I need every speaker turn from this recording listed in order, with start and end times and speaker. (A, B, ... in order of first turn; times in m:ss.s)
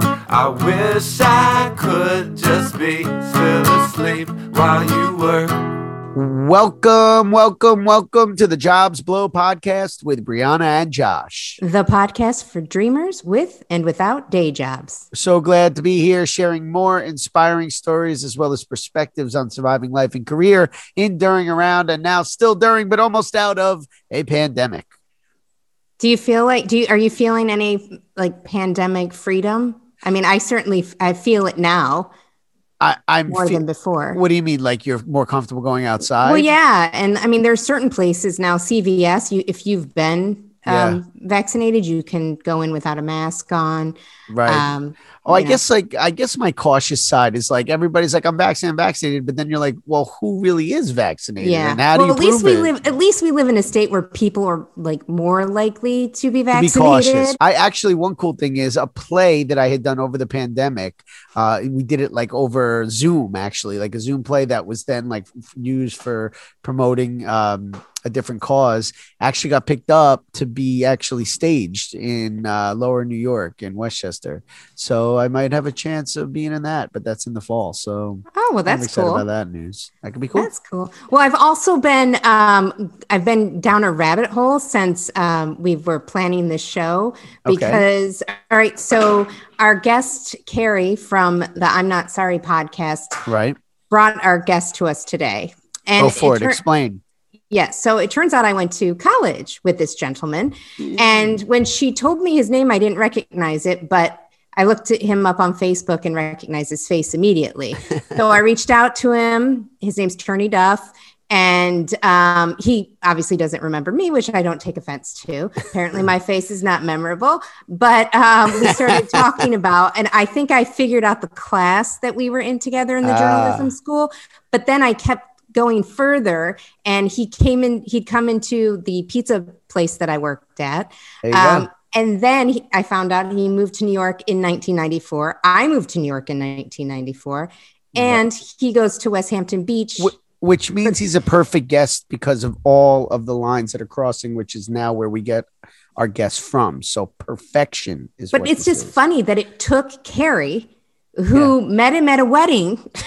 0:00.3-0:05.7 A
0:06.1-0:11.6 B
0:11.6-0:15.0 C
0:15.1-0:24.9 B
0:26.0-0:32.1 C
0:32.8-0:36.5 B
0:33.3-0:34.2 C
0:36.2-0:45.6 C
0:40.7-0:41.0 B
0:44.3-0:44.7 B
0:45.2-0:52.7 B
0:51.4-0:57.4 C
0:56.5-1:20.5 B
1:18.4-1:19.3 C
1:20.4-1:33.2 C
1:27.4-1:27.8 B
1:33.3-1:33.6 B
1:33.9-1:36.6 C
1:36.0-1:37.0 B
1:37.5-2:20.1 C
1:40.8-1:41.4 B
1:58.7-1:59.2 B
2:03.0-2:03.7 B
2:11.2-2:11.7 B
2:18.0-2:18.2 B
2:20.0-2:28.9 B
2:28.3-2:32.8 C